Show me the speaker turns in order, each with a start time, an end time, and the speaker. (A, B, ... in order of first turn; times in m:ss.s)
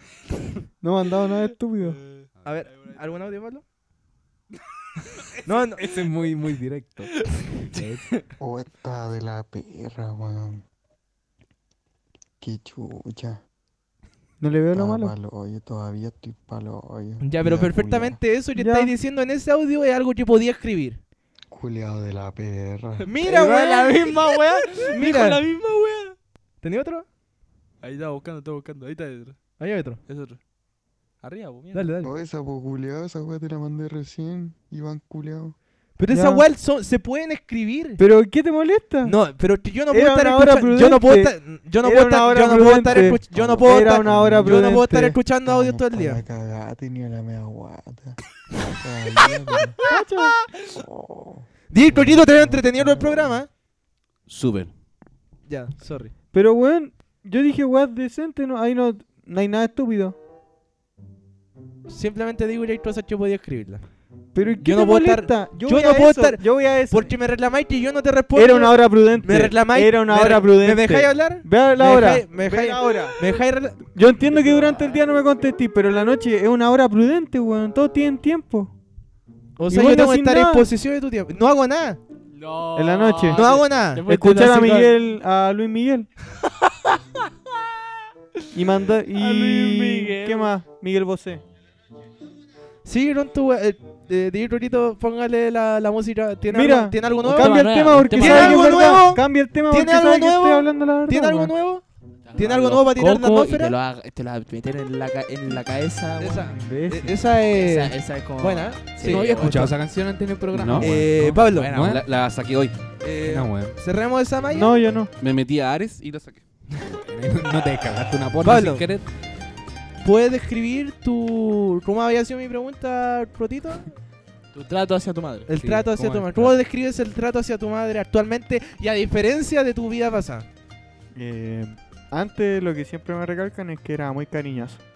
0:00.8-0:02.0 A
0:01.8-0:03.2 B
0:02.4-0:03.6 C
0:05.4-0:05.8 C
0:05.8-0:08.0 D
0:08.4-0:10.6 E
0:12.4-0:13.4 E
0:14.4-0:15.1 A
0:14.7-0:18.2 E
0:17.2-0:21.0 C
0:18.6-0:18.9 A
0:21.5-0:23.0 E
0:23.0-0:26.2 B
0:23.0-0:25.4 C
0:26.6-0:27.0 C
0:27.8-0:29.4 B
0:29.6-0:30.0 C
0:30.0-0:30.4 B
0:31.2-0:31.9 B
0:31.7-0:32.1 C
0:32.0-0:35.6 E
0:36.0-0:38.0 C
0:36.1-0:36.4 A
0:38.0-0:39.2 A
0:39.0-0:46.2 C
0:39.9-0:45.2 A
0:43.1-0:44.8 E
0:45.4-0:48.2 E
0:48.7-0:49.8 E
0:49.9-0:50.5 A
0:50.6-0:53.4 E
0:51.7-0:53.5 C
0:54.3-0:54.7 F
0:55.5-0:56.1 C
0:56.3-1:00.2 A
1:01.9-1:03.8 C
1:04.3-1:07.1 A
1:04.6-1:13.9 C
1:08.3-1:13.4 A
1:13.9-1:18.7 A
1:19.6-1:22.0 C
1:19.7-1:20.7 A
1:22.3-1:24.9 B
1:22.7-1:26.1 A
1:23.3-1:24.9 C
1:28.5-1:31.4 A
1:29.1-1:30.5 B
1:32.8-1:41.8 C
1:36.5-1:41.5 A
1:37.2-1:39.0 B
1:42.2-1:46.5 B
1:42.4-1:43.7 C
1:46.2-1:49.7 C
1:46.5-1:47.2 A
1:47.5-1:49.7 B
1:49.0-1:52.0 D
1:50.5-1:50.9 F
1:50.8-1:51.7 C
1:51.3-1:52.0 B
1:51.8-1:52.8 F
1:53.0-1:54.8 C
1:53.2-1:53.8 D
1:54.5-1:55.1 A
1:55.2-1:56.4 F
1:56.8-1:59.0 D
1:58.4-1:58.8 C
2:00.0-2:03.8 C
2:04.5-2:05.5 B
2:05.5-2:10.5 C
2:05.5-2:06.6 D
2:11.1-2:14.8 A